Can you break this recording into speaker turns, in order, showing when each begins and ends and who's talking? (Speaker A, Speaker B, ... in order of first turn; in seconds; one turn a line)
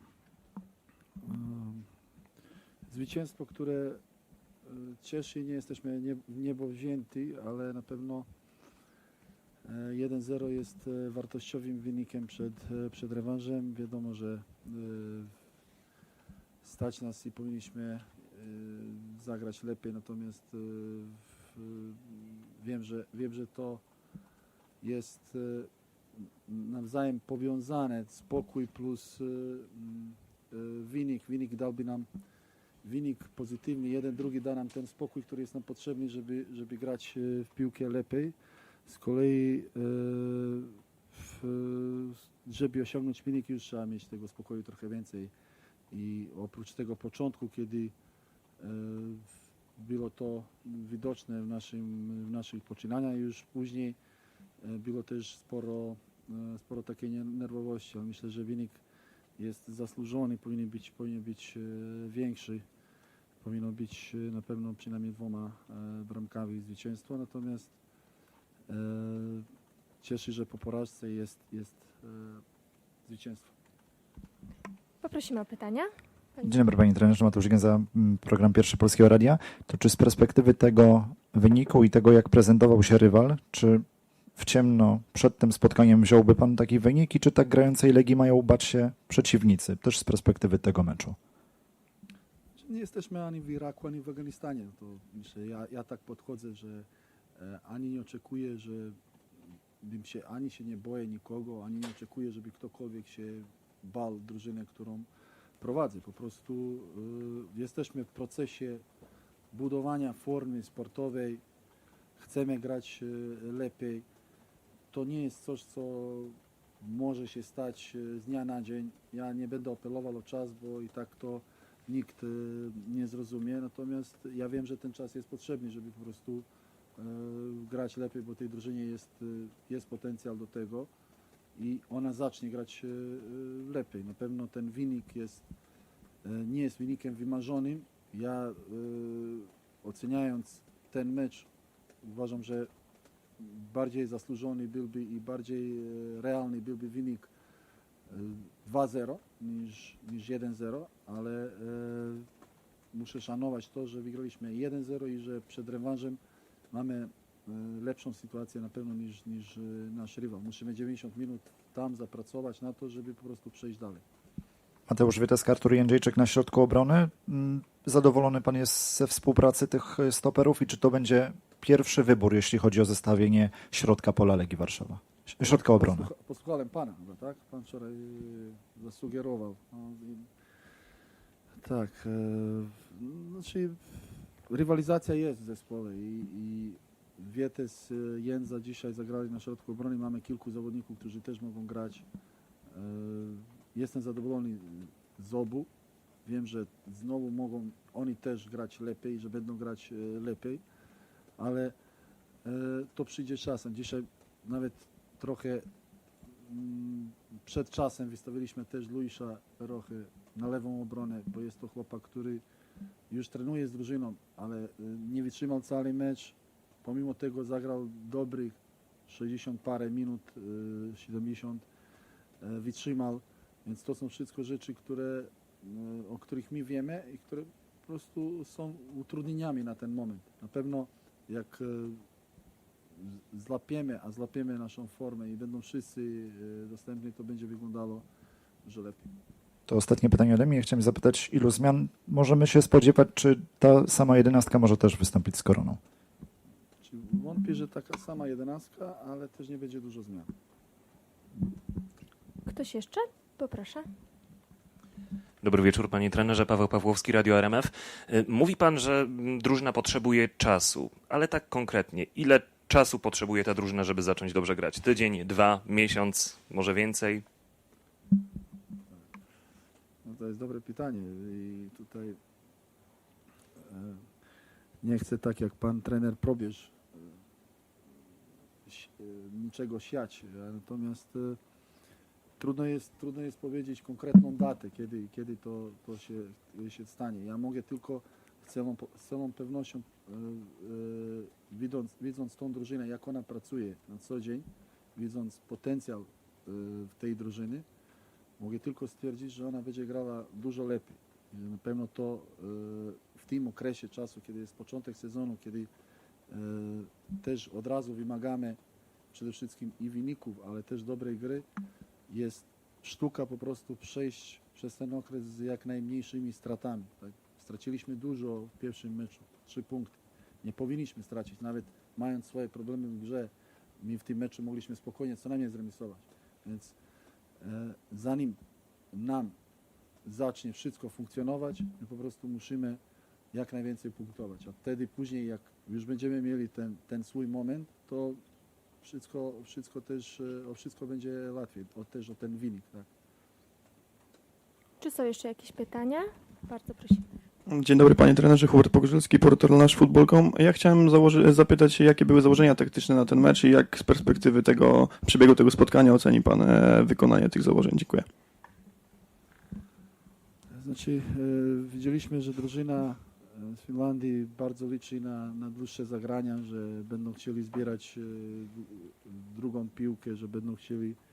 Speaker A: 1.2-1.9
Speaker A: 2.9-4.0
Speaker A: 4.7-8.3
Speaker A: 9.6-15.3
Speaker A: 16.6-23.8
Speaker A: 24.8-25.7
Speaker A: 26.5-32.1
Speaker A: 32.8-38.3
Speaker A: 38.9-45.3
Speaker A: 45.9-47.9
Speaker A: 48.6-54.0
Speaker A: 54.6-58.8
Speaker A: 59.4-62.6
Speaker A: 63.4-67.7
Speaker A: 68.7-69.5
Speaker A: 70.0-72.4
Speaker A: 73.1-73.5
Speaker B: 75.0-76.6
Speaker C: 76.4-83.8
Speaker C: 84.4-91.2
Speaker A: 92.6-99.0
Speaker A: 99.8-105.1
Speaker A: 105.6-108.8
Speaker A: 109.5-111.4
Speaker A: 112.2-114.0
Speaker A: 114.9-126.5
Speaker A: 127.0-130.9
Speaker A: 131.6-135.4
Speaker A: 136.2-141.5
Speaker A: 142.0-142.7
Speaker A: 143.4-147.3
Speaker A: 148.1-152.3
Speaker A: 152.9-156.2
Speaker A: 156.7-164.0
Speaker C: 164.9-176.1
Speaker A: 175.4-180.3
Speaker A: 181.6-192.0
Speaker A: 192.7-195.7
Speaker A: 196.2-200.6
Speaker A: 201.4-201.7
Speaker A: 202.4-205.6
Speaker A: 206.4-212.4
Speaker A: 213.1-218.6
Speaker A: 219.1-221.7
Speaker A: 222.4-232.0
Speaker A: 233.0-238.0
Speaker A: 238.6-239.1
Speaker C: 239.7-245.8
Speaker A: 246.8-250.3
Speaker B: 252.5-253.8
Speaker D: 255.4-267.2
Speaker A: 270.1-272.2
Speaker A: 273.6-274.0
Speaker A: 274.8-277.1
Speaker A: 278.7-281.4
Speaker A: 282.4-297.6
Speaker A: 298.4-305.7
Speaker A: 306.3-308.6
Speaker A: 309.1-311.5
Speaker A: 312.1-326.7
Speaker A: 327.4-328.4
Speaker A: 328.9-329.4
Speaker A: 330.1-332.8
Speaker A: 333.3-338.2
Speaker A: 338.8-342.9
Speaker B: 344.8-347.0
Speaker E: 347.5-358.0
Speaker A: 360.5-371.0